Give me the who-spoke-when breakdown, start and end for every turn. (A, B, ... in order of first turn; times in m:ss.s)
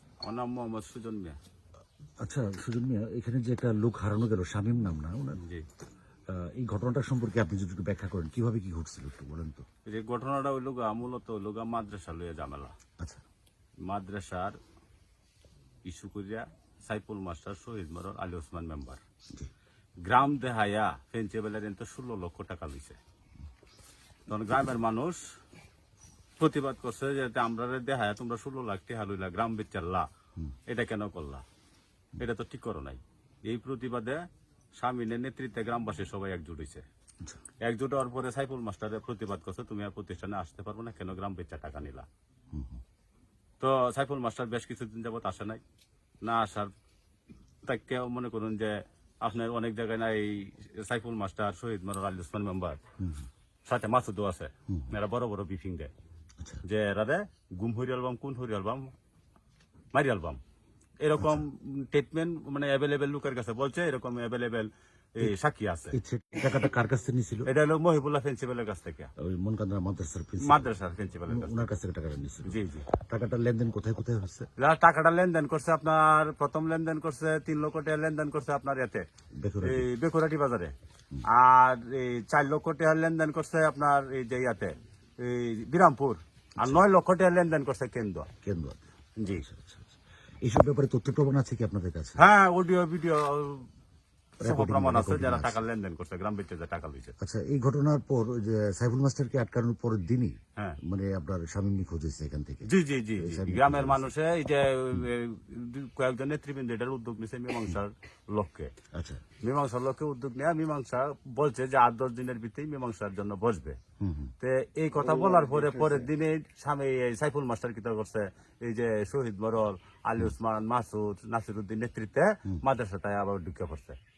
0:00.2-0:01.4 A
0:02.2-0:05.4 B
0:06.3-0:09.6 B
0:09.8-0:12.7 A
0:13.8-0:14.6 A
0:15.8-0:19.0 A
0:20.0-0:23.0 A
0:24.3-0:25.2 A
0:26.4-0:30.1 A
0:30.7-0:31.4 A
0:32.2-0:34.2 A
0:34.8-0:36.8 A
0:37.6-0:42.1 A
0:42.5-0:42.8 B
0:43.6-0:45.6 A
0:46.2-0:46.7 A
0:47.6-0:52.8 A
0:53.0-0:53.2 B
0:53.6-0:55.9 A
0:56.6-0:58.9 A
0:59.9-1:00.4 A
1:01.0-1:05.9 A
1:01.2-1:01.4 B
1:05.9-1:07.5 B
1:07.5-1:09.1 A
1:09.2-1:14.5 B
1:10.4-1:11.7 A
1:12.5-1:12.9 A
1:14.6-1:19.0 A
1:19.4-1:19.9 B
1:19.6-1:20.7 A
1:21.3-1:28.3 A
1:28.4-1:32.2 B
1:29.2-1:29.4 A
1:32.2-1:33.6 A
1:34.4-1:37.1 A
1:34.4-1:35.6 B
1:37.2-1:42.7 B
1:42.7-1:48.7 A
1:43.2-1:44.1 B
1:48.9-1:49.2 B
1:49.4-1:53.8 A
1:54.0-1:54.3 B
1:54.4-2:04.0 A